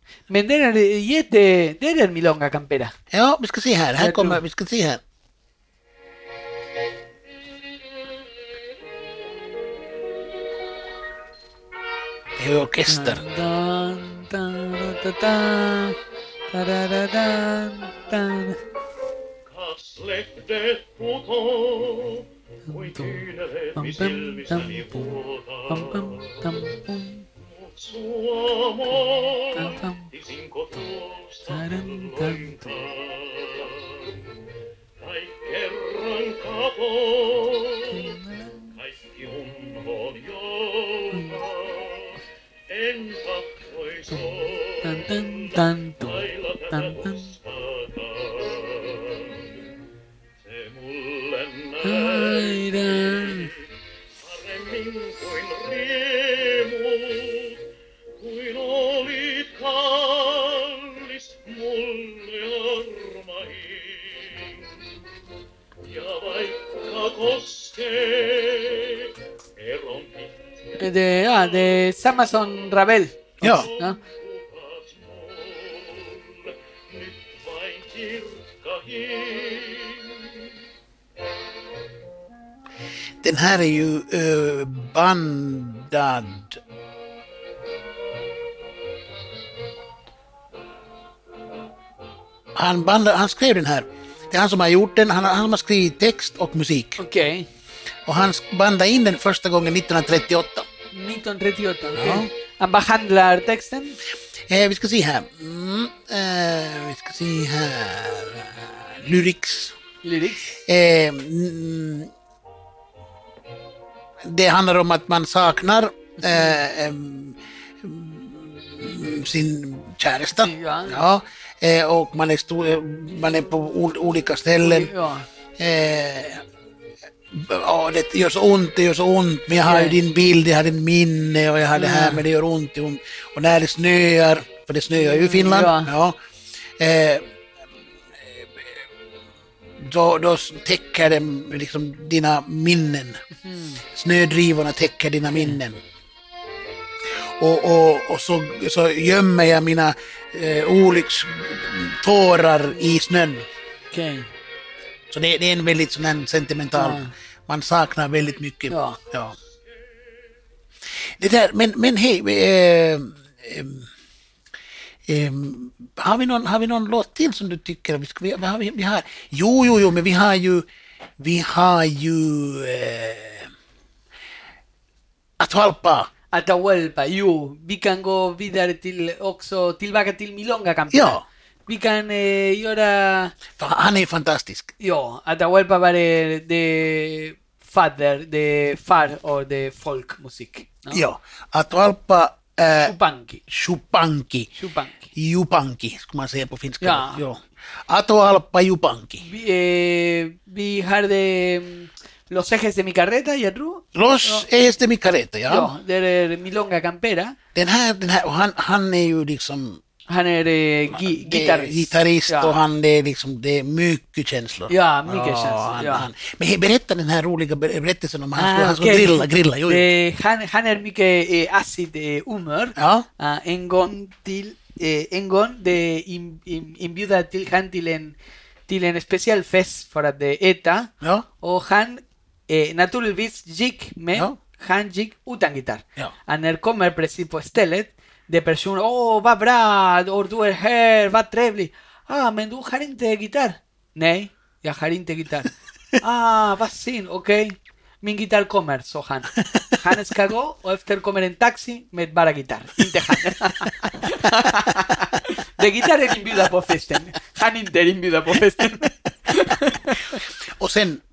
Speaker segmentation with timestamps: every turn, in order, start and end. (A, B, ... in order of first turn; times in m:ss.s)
0:00.3-0:02.9 A
0:03.1-0:05.0 B
0:04.0-0:04.4 A
0:12.4-0:13.2 B
0:12.9-0:16.0 A
0:16.5-0:18.6 A
0:19.5-0:26.6 C
0:22.6-0:25.1 A
0:25.7-0:27.2 A
0:27.4-0:34.3 C
0:29.5-0:30.1 A
0:31.5-0:32.7 A
0:35.0-0:38.2 C
0:37.9-0:38.7 A
0:38.7-0:49.6 C
0:41.1-0:41.4 A
0:44.8-0:47.3 A
0:50.4-0:53.6 C
0:51.8-0:53.5 A
0:54.2-0:57.6 C
0:58.2-1:04.7 C
1:05.8-1:10.4 C
1:10.8-1:14.0 A
1:13.4-1:20.5 C
1:13.4-1:13.7 B
1:23.2-1:26.6 B
1:32.5-1:37.0 B
1:37.0-1:37.5 A
1:38.0-1:40.7 B
1:40.9-1:44.0 A
1:42.0-1:42.3 B
1:44.5-1:49.8 B
1:50.0-1:50.6 A
1:50.5-1:52.1 B
1:54.2-2:04.9 B
2:00.4-2:01.0 A
2:04.6-2:05.3 A
2:05.6-2:06.4 B
2:07.3-2:16.2 B
2:09.6-2:10.0 A
2:11.8-2:12.2 A
2:14.9-2:15.9 A
2:16.8-2:17.2 B
2:18.2-2:18.8 B
2:19.8-2:23.2 B
2:23.3-2:23.8 A
2:23.8-2:25.8 B
2:27.1-2:33.4 B
2:33.9-2:34.3 A
2:35.1-2:39.3 B
2:36.7-2:37.1 A
2:38.7-2:39.0 A
2:41.2-2:43.9 B
2:45.1-2:50.6 B
2:51.2-2:53.5 B
2:55.4-2:56.1 B
2:56.3-3:03.4 A
3:00.9-3:01.2 B
3:03.6-3:04.7 B
3:04.8-3:11.0 A
3:10.9-3:12.9 B
3:12.8-3:13.4 A
3:13.5-3:14.5 B
3:14.5-3:15.1 A
3:15.2-3:19.2 B
3:16.8-3:17.2 A
3:19.2-3:24.5 A
3:23.9-3:25.7 B
3:25.5-3:27.4 A
3:27.5-3:29.8 B
3:30.1-3:32.6 A
3:30.9-3:39.9 B
3:34.7-3:36.1 A
3:38.4-3:48.2 A
3:42.8-3:43.1 B
3:48.7-3:50.9 A
3:51.0-3:51.2 B
3:51.4-4:20.2 A
4:20.5-4:21.0 B